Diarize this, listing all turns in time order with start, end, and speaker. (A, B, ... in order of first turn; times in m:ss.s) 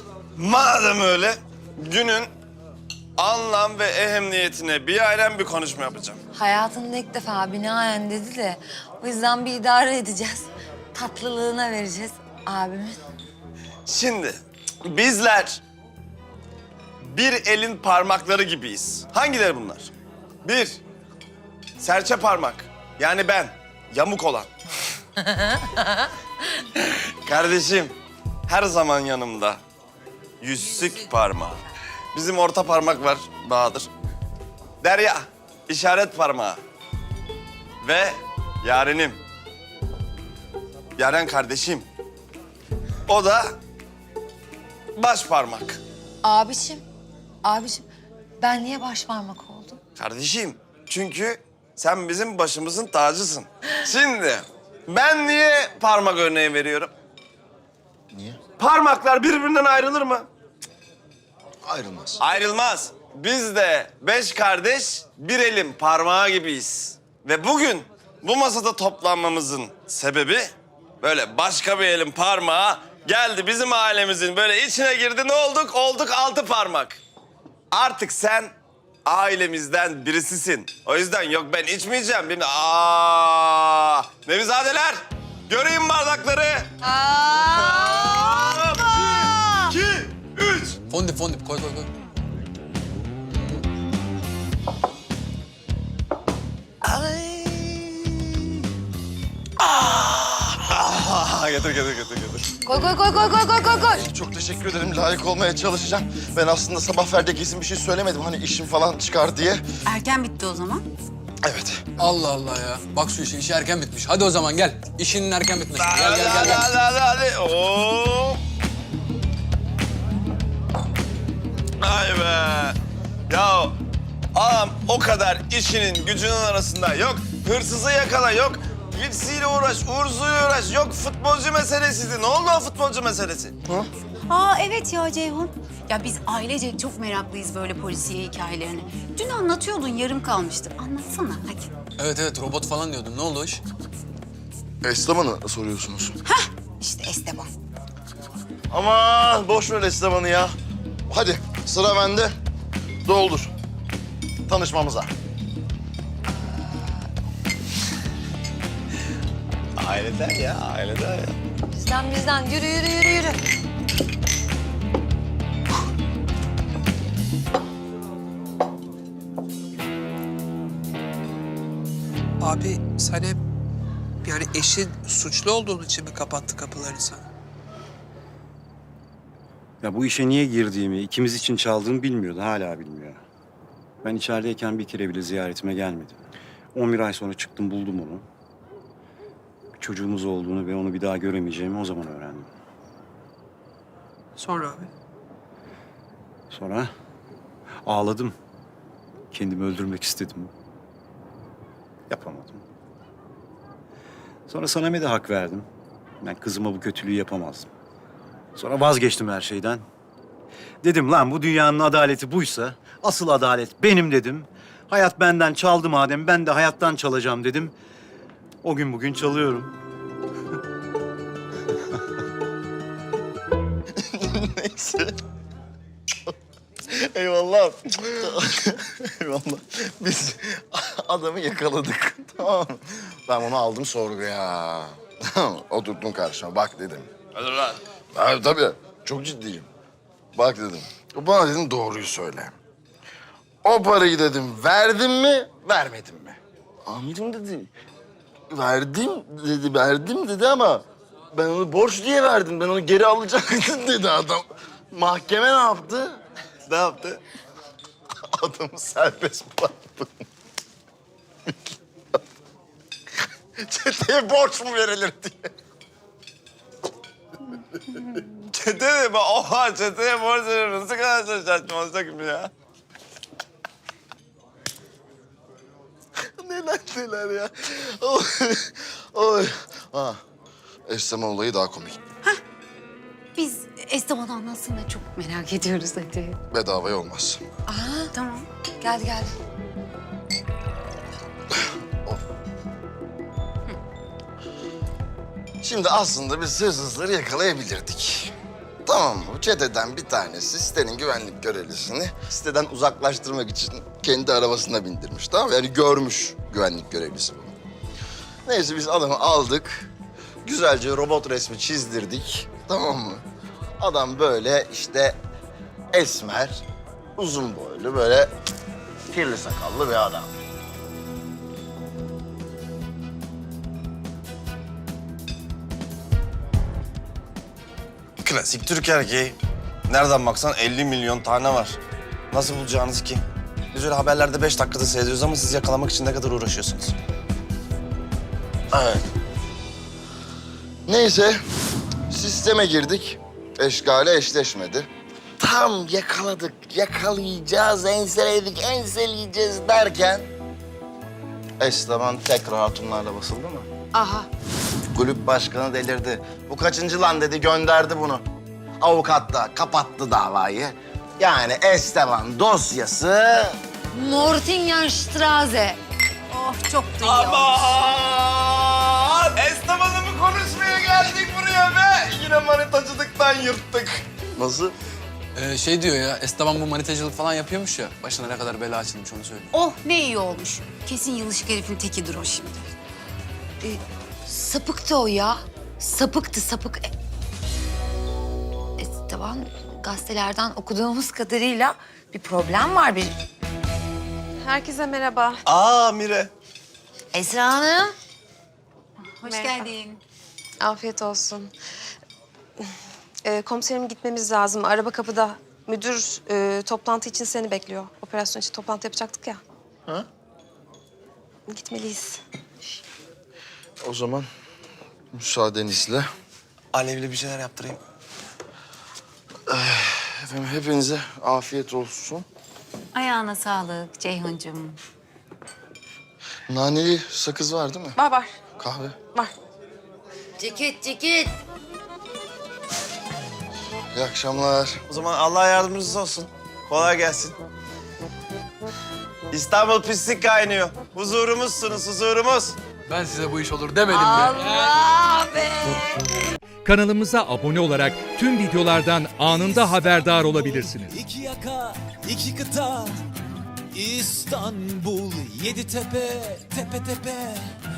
0:00.4-0:02.3 A
0:03.2-0:06.2 A
0:06.3-0:13.0 B
0:13.9-0:15.6 A
0:17.0-0:19.9 A
0:20.4-0:20.8 A
0:21.8-0:24.5 A
0:25.3-0:26.0 B
0:26.8-0:27.9 A
0:28.5-0:29.6 A
0:30.4-0:31.6 A
0:32.1-0:33.9 A
0:34.8-0:36.6 A
0:37.8-0:39.2 A
0:41.0-0:41.9 A
0:43.1-0:43.6 A
0:45.0-0:45.8 A
0:46.2-0:46.8 B
0:47.4-0:47.9 B
0:48.4-0:49.8 B
0:50.0-0:56.9 A
0:58.1-0:58.4 C
0:58.6-1:00.3 A
1:01.6-1:02.2 C
1:02.2-1:17.0 A
1:17.7-1:18.5 A
1:19.1-1:26.7 A
1:26.8-1:29.7 B
1:27.5-1:30.8 A
1:30.9-1:31.9 D
1:33.3-1:33.6 D
1:36.8-1:38.3 A
1:39.6-1:42.5 A
1:42.6-1:44.1 B
1:43.9-1:49.6 C
1:49.9-1:50.9 E
1:51.4-1:51.8 C
1:52.0-1:56.7 D
1:55.8-1:58.4 A
2:01.8-2:02.8 A
2:03.3-2:03.8 A
2:04.3-2:13.6 A
2:14.3-2:21.7 E
2:22.0-2:23.6 D
2:24.8-2:26.2 C
2:26.3-2:27.5 E
2:28.7-2:30.5 C
2:31.1-2:32.3 C
2:33.0-2:33.5 C
2:34.5-2:35.1 C
2:36.4-2:37.0 B
2:39.8-2:41.4 A
2:41.7-2:43.4 B
2:52.4-2:53.4 F
2:54.2-2:57.2 F
2:59.8-3:03.2 G
3:04.0-3:06.2 G
3:06.7-3:08.2 G
3:09.8-3:12.5 G
3:14.4-3:14.9 F
3:16.5-3:16.9 G
3:17.8-3:18.4 G
3:19.3-3:20.5 G
3:22.1-3:22.6 G
3:24.5-3:25.7 G
3:26.2-3:27.7 G
3:28.6-3:29.8 G
3:30.8-3:37.7 G
3:38.6-3:39.7 G
3:44.0-3:45.2 C
3:46.9-3:57.1 C
3:57.4-3:57.8 A
3:58.1-3:59.7 C
4:00.4-4:02.5 C
4:03.6-4:07.7 C
4:08.5-4:16.2 C
4:16.7-4:17.2 A
4:18.3-4:20.1 C
4:23.6-4:25.5 C
4:28.4-4:32.5 A
4:36.4-4:40.2 C
4:40.9-4:42.0 C
4:43.4-4:46.4 E
4:46.5-4:47.4 C
4:47.7-4:48.1 B
4:48.1-4:48.5 E
4:48.8-4:49.3 B
4:55.6-4:58.3 C
4:58.9-5:07.5 C
5:08.5-5:09.9 C
5:10.4-5:13.2 C
5:13.8-5:15.2 C
5:15.9-5:16.6 C
5:17.2-5:18.3 C
5:19.1-5:20.3 C
5:28.2-5:29.4 A
5:29.9-5:31.8 A
5:32.3-5:37.0 A
5:38.7-5:39.1 C
5:40.9-5:41.4 C
5:42.1-5:50.3 C
5:51.6-5:53.7 C
5:53.9-5:54.3 B
5:54.9-5:58.2 C
5:58.8-6:03.6 C
6:03.9-6:05.8 B
6:06.3-6:07.8 E
6:07.0-6:14.0 A
6:14.4-6:14.8 C
6:15.4-6:19.5 D
6:19.5-6:22.7 E
6:23.6-6:26.9 B
6:28.8-6:33.1 B
6:34.5-6:35.3 H
6:35.5-6:36.3 A
6:37.1-6:37.9 B
6:39.2-6:40.0 E
6:40.6-6:41.4 H
6:43.3-6:49.4 H
6:51.5-6:52.2 H
6:53.8-6:54.3 C
6:55.1-6:56.1 C
6:56.7-6:57.8 A
6:59.5-7:02.2 C
7:03.0-7:04.8 E
7:06.5-7:08.0 C
7:08.6-7:09.0 C
7:10.4-7:11.3 B
7:13.9-7:14.8 C
7:14.9-7:17.4 A
7:19.3-7:22.6 A
7:22.9-7:24.8 D
7:23.9-7:26.0 B
7:26.6-7:31.0 I
7:29.4-7:33.0 J
7:33.7-7:37.6 J